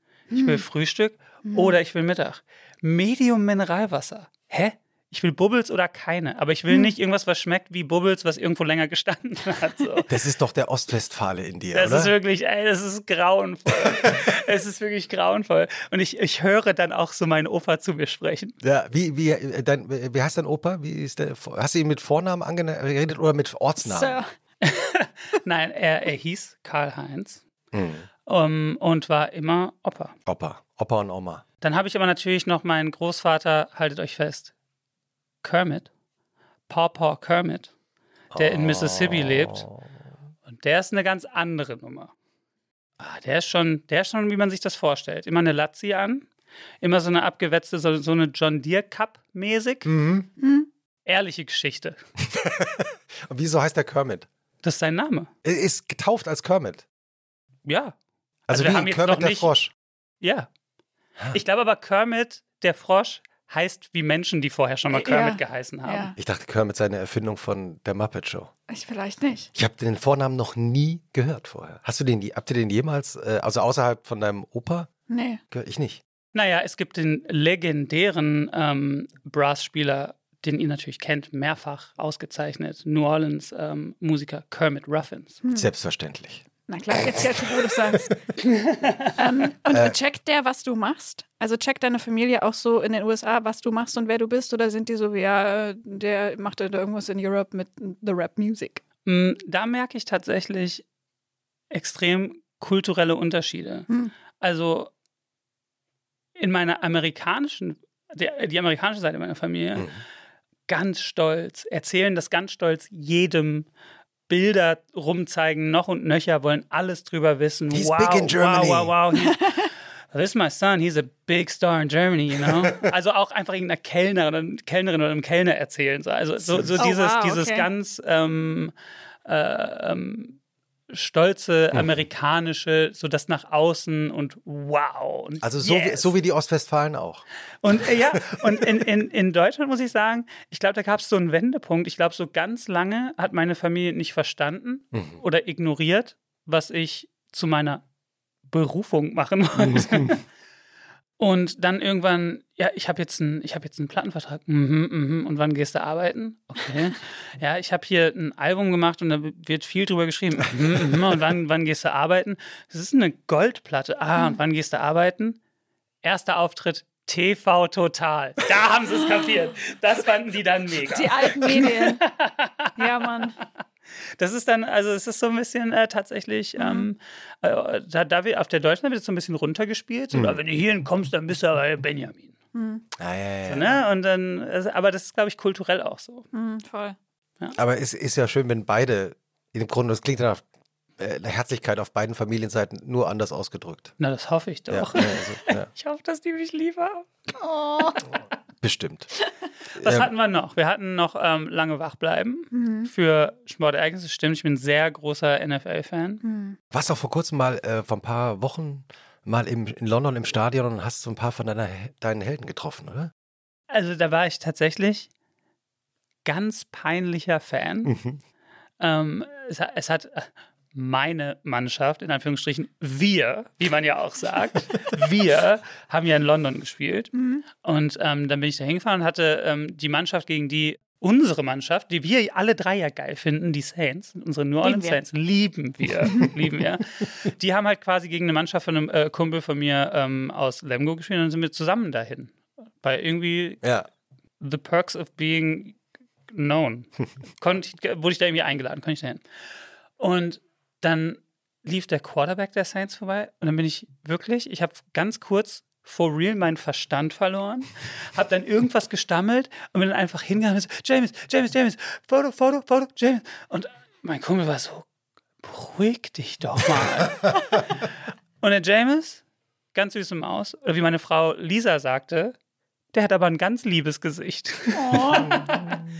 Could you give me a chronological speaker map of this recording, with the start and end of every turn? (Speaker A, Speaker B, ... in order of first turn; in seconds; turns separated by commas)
Speaker A: 0.3-0.6, Speaker B: 0.3-10.1, Speaker A: 1.5-1.8, Speaker C: 10.1-12.1, Speaker B: 11.7-18.6, Speaker C: 13.8-14.2, Speaker C: 18.6-24.2, Speaker A: 23.8-24.3, Speaker B: 24.6-27.4, Speaker C: 27.7-28.1, Speaker B: 28.3-30.1, Speaker C: 30.3-31.4, Speaker B: 31.6-34.5, Speaker B: 35.4-35.9, Speaker B: 36.7-37.7, Speaker C: 38.3-39.8, Speaker B: 38.4-39.7, Speaker B: 40.5-42.1, Speaker B: 43.0-46.3, Speaker B: 46.8-49.9, Speaker C: 49.9-50.3, Speaker A: 50.4-50.7, Speaker B: 51.1-52.0, Speaker C: 52.2-54.3, Speaker B: 54.6-55.3, Speaker C: 55.4-56.9, Speaker B: 57.7-58.0, Speaker C: 58.5-59.7, Speaker B: 58.5-59.5, Speaker B: 60.2-60.5, Speaker B: 61.3-66.1, Speaker A: 64.9-66.2, Speaker C: 66.2-68.5, Speaker A: 68.7-69.5, Speaker C: 69.5-74.9, Speaker A: 75.1-75.4, Speaker C: 75.5-76.0, Speaker B: 76.3-85.4, Speaker C: 85.5-86.4, Speaker A: 86.7-88.2, Speaker B: 88.4-89.1, Speaker A: 89.2-98.8, Speaker B: 99.1-100.8, Speaker B: 101.7-103.9, Speaker B: 104.4-104.9, Speaker B: 106.4-110.0, Speaker B: 110.7-113.7, Speaker B: 114.3-128.7, Speaker C: 117.7-118.9, Speaker A: 119.2-119.7, Speaker C: 122.5-122.9, Speaker C: 126.5-126.8, Speaker A: 126.8-127.7, Speaker B: 129.3-130.4, Speaker B: 130.9-136.1, Speaker C: 131.7-132.0, Speaker C: 135.4-137.2, Speaker B: 137.6-147.8, Speaker C: 138.1-138.6, Speaker C: 144.9-145.2, Speaker B: 148.5-150.2, Speaker C: 149.6-150.1, Speaker B: 151.2-165.4, Speaker B: 166.0-173.2, Speaker A: 170.9-172.0, Speaker A: 172.8-173.4, Speaker B: 174.2-182.3, Speaker A: 176.6-176.9, Speaker C: 180.1-180.4, Speaker A: 182.5-182.8, Speaker C: 183.0-183.8, Speaker B: 183.5-186.3, Speaker A: 186.3-187.0, Speaker C: 187.6-190.4, Speaker C: 191.0-193.9, Speaker B: 194.0-197.1, Speaker C: 194.7-195.7, Speaker A: 197.4-198.0, Speaker C: 198.6-199.1, Speaker C: 199.8-200.1, Speaker B: 199.8-206.2, Speaker A: 202.5-202.9, Speaker A: 206.2-206.6, Speaker C: 206.7-213.1, Speaker B: 213.7-215.1, Speaker B: 216.2-217.9, Speaker C: 217.9-218.2, Speaker B: 218.8-243.7, Speaker A: 227.1-227.4, Speaker A: 234.6-235.0, Speaker C: 243.6-243.9, Speaker B: 244.4-245.8, Speaker B: 246.3-249.2, Speaker B: 250.0-264.9, Speaker B: 265.4-267.9, Speaker B: 268.4-269.2, Speaker B: 269.7-272.3, Speaker B: 272.9-275.8, Speaker A: 274.7-275.5